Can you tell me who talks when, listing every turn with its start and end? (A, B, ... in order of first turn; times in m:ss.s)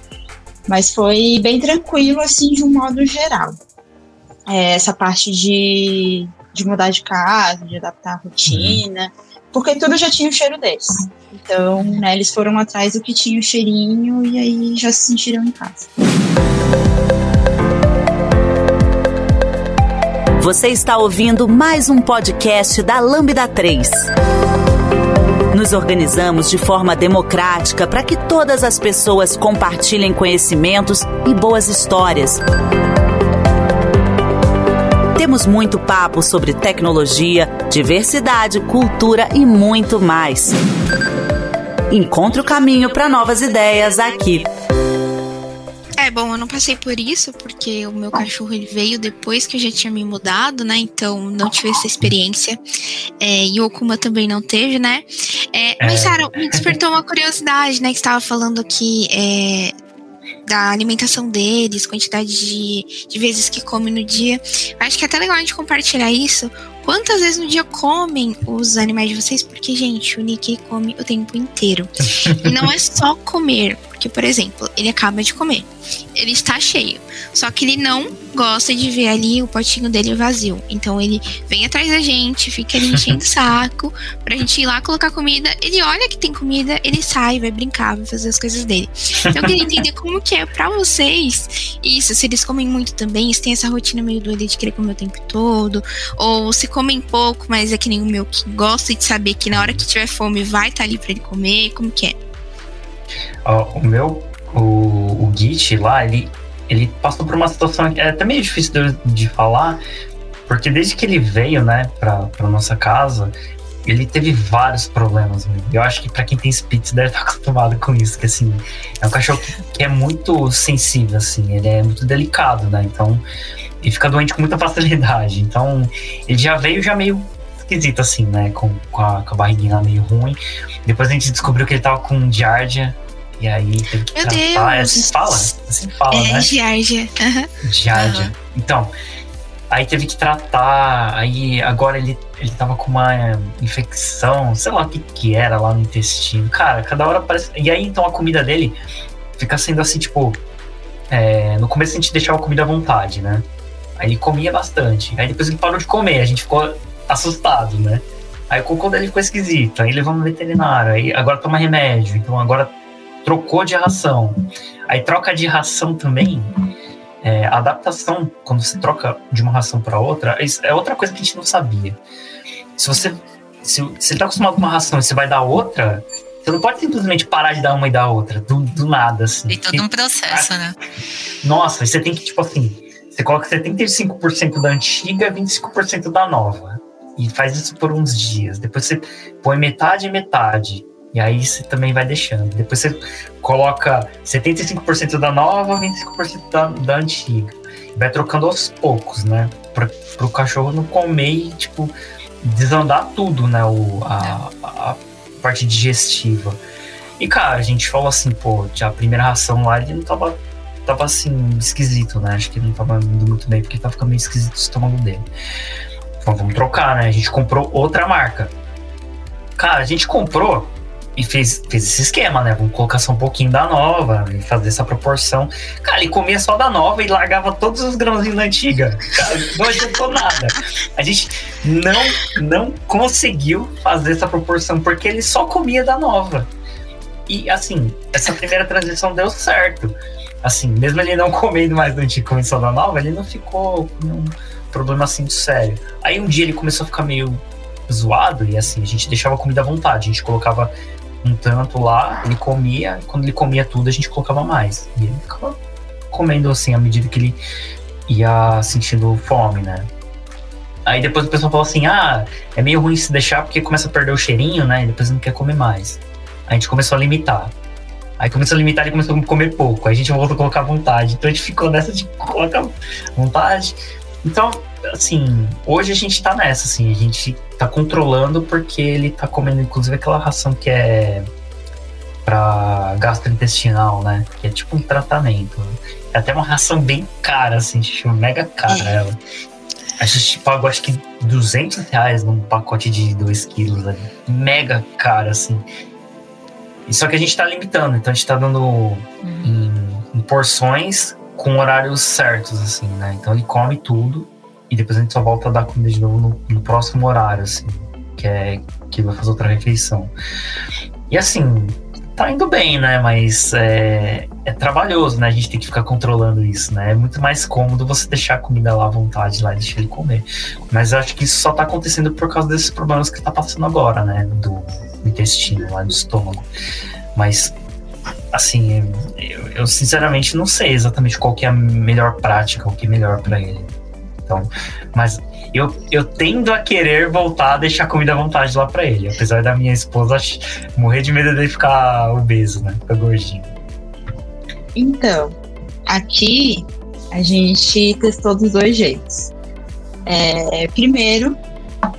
0:00.7-0:03.6 A
0:04.5-0:15.9 A
0:08.5-0:08.8 B
0:20.4-0:24.0 C
0:25.5-0:32.4 C
0:35.2-0:40.6 C
0:41.9-0:44.5 C
0:46.0-0:52.6 D
0:53.2-0:59.7 D
0:55.8-0:56.7 B
1:00.5-1:42.2 D
1:12.2-1:12.5 B
1:39.5-1:39.8 B
1:43.4-1:49.8 B
1:50.5-1:53.3 B
1:53.8-2:03.2 B
2:03.8-2:16.5 B
2:14.2-2:15.5 D
2:16.1-2:17.5 D
2:17.6-2:18.9 B
2:19.7-2:28.8 B
2:29.4-2:30.4 B
2:31.1-2:46.5 B
2:47.2-2:52.0 B
2:52.8-3:00.5 B
2:59.5-3:00.8 E
3:01.4-3:26.6 B
3:27.2-3:35.3 B
3:36.2-3:38.5 B
3:39.6-3:56.5 B
3:57.3-4:15.6 B
4:16.1-4:17.4 B
4:18.1-4:19.9 B
4:20.8-4:27.5 B
4:28.2-4:41.3 B
4:42.2-4:49.2 B
4:48.7-4:49.0 E
4:50.0-4:55.6 B
4:56.9-5:10.1 B
4:59.2-4:59.5 E
5:11.1-5:26.5 B
5:27.2-5:27.6 B
5:28.3-5:33.7 B
5:34.3-5:43.5 B
5:44.8-5:45.3 A
5:45.9-5:49.3 A
5:50.1-5:51.4 A